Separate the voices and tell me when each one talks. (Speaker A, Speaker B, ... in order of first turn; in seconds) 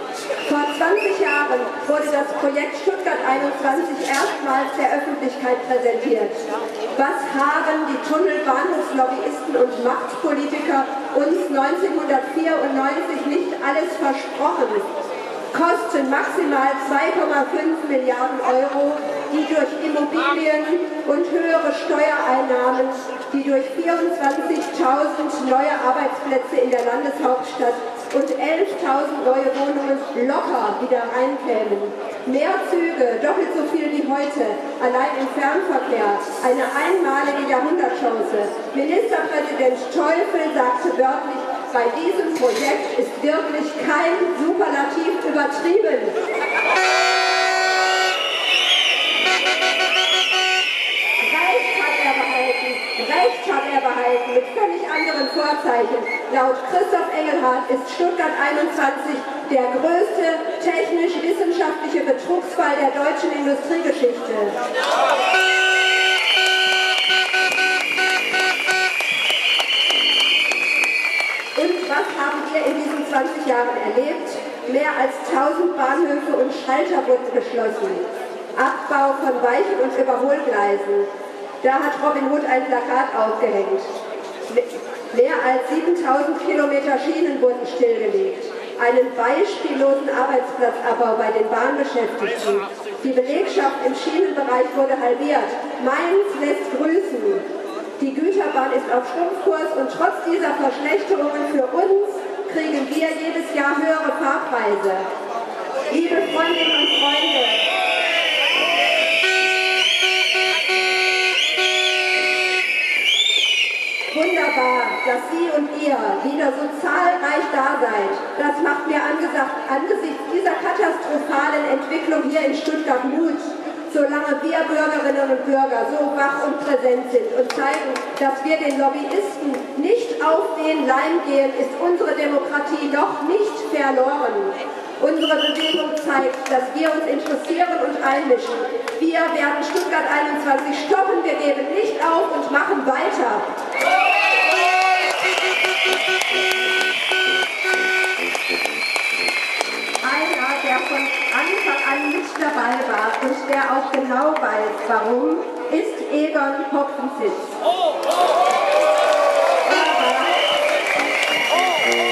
Speaker A: 0.5-6.4, 6.9-14.9, 15.5-46.2, 51.2-64.6, 71.5-78.0, 78.5-81.1, 81.6-83.9, 84.5-97.5, 98.0-105.1, 105.9-107.6, 114.1-143.4, 150.0-157.6, 159.6-160.5